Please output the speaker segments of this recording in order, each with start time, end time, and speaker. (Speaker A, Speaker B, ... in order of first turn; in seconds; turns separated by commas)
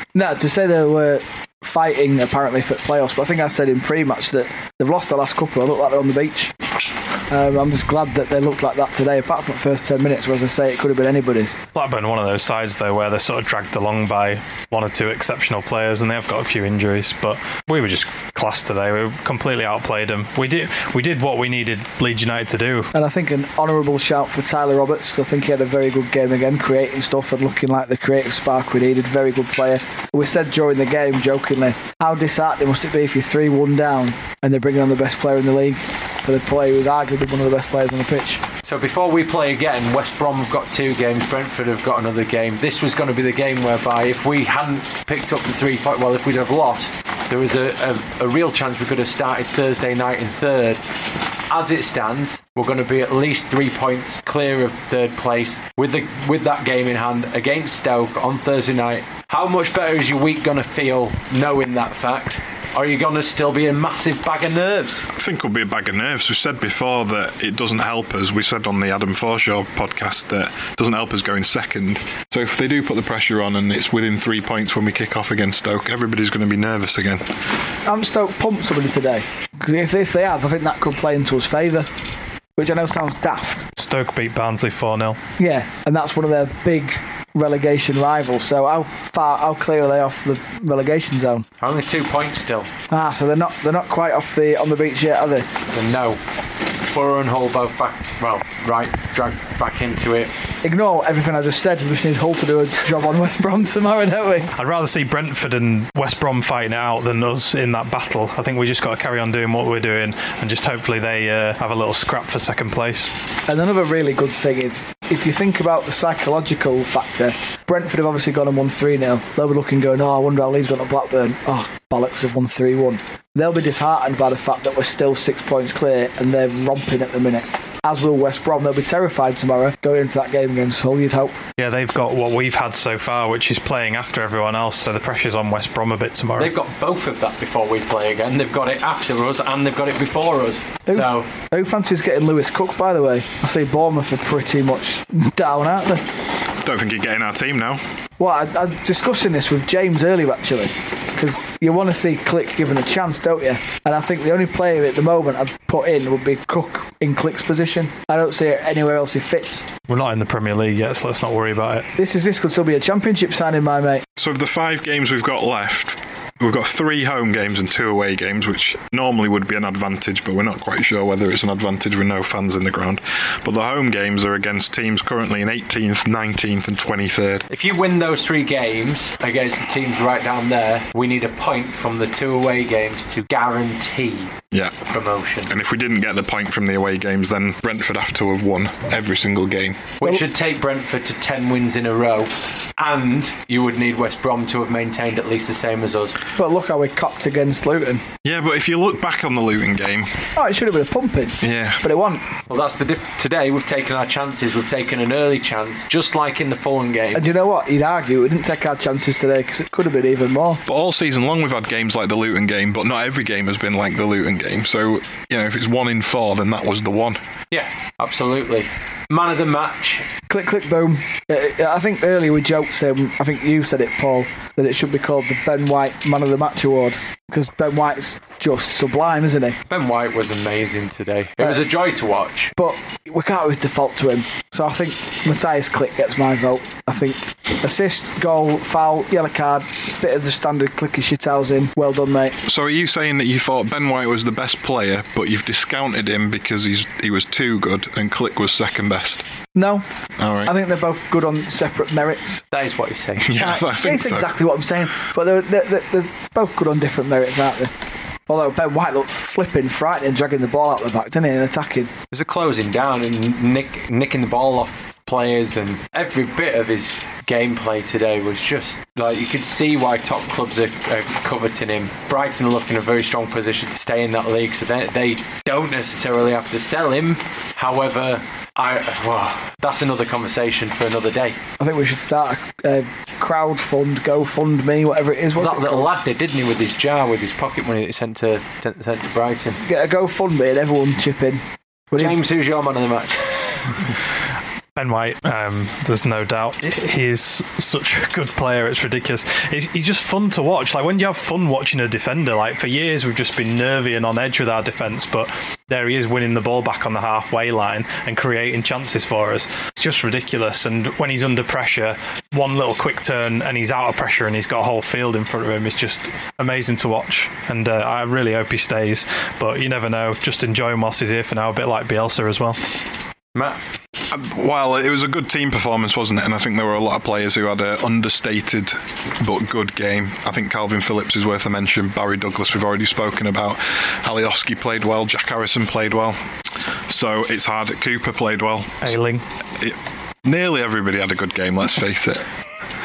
Speaker A: 0.1-6.5, Speaker A: 7.3-11.6, Speaker B: 11.7-22.9, Speaker A: 22.9-38.4, Speaker C: 38.6-50.8, Speaker C: 51.5-65.1, Speaker D: 65.1-77.3, Speaker A: 77.9-81.9, Speaker A: 82.6-83.7, Speaker B: 83.8-85.2, Speaker A: 85.4-91.5, Speaker C: 91.6-92.7, Speaker A: 92.9-95.5, Speaker C: 95.7-96.2, Speaker C: 96.8-100.3, Speaker A: 100.6-104.5, Speaker B: 104.5-113.1, Speaker A: 113.5-131.4, Speaker B: 131.6-136.5, Speaker C: 136.4-141.3, Speaker A: 140.9-146.1, Speaker D: 146.6-147.8, Speaker A: 148.2-159.7, Speaker B: 159.9-161.9, Speaker A: 162.0-164.1, Speaker D: 164.2-177.5, Speaker C: 177.5-184.3, Speaker D: 184.5-184.8, Speaker C: 184.9-185.5, Speaker D: 185.5-189.9, Speaker C: 190.0-196.2, Speaker A: 196.4-198.0, Speaker D: 198.2-200.2, Speaker A: 200.3-202.3, Speaker D: 201.4-201.8, Speaker C: 202.5-207.2, Speaker A: 207.2-210.6, Speaker D: 210.7-217.2, Speaker C: 217.5-220.1, Speaker A: 220.3-229.6, Speaker C: 229.7-232.5, Speaker A: 232.6-242.4, Speaker D: 242.5-249.3, Speaker A: 249.6-249.9, Speaker D: 250.2-250.5, Speaker A: 250.4-252.4, Speaker C: 252.5-253.3, Speaker D: 253.2-254.4, Speaker A: 253.3-257.7, Speaker A: 258.3-261.9, Speaker C: 262.1-281.4, Speaker A: 281.6-285.9, Speaker C: 285.4-289.6, Speaker A: 289.6-292.1, Speaker C: 291.9-293.3, Speaker B: 294.8-322.6, Speaker D: 324.1-336.2, Speaker D: 336.9-339.0, Speaker B: 338.8-339.2, Speaker D: 339.6-342.3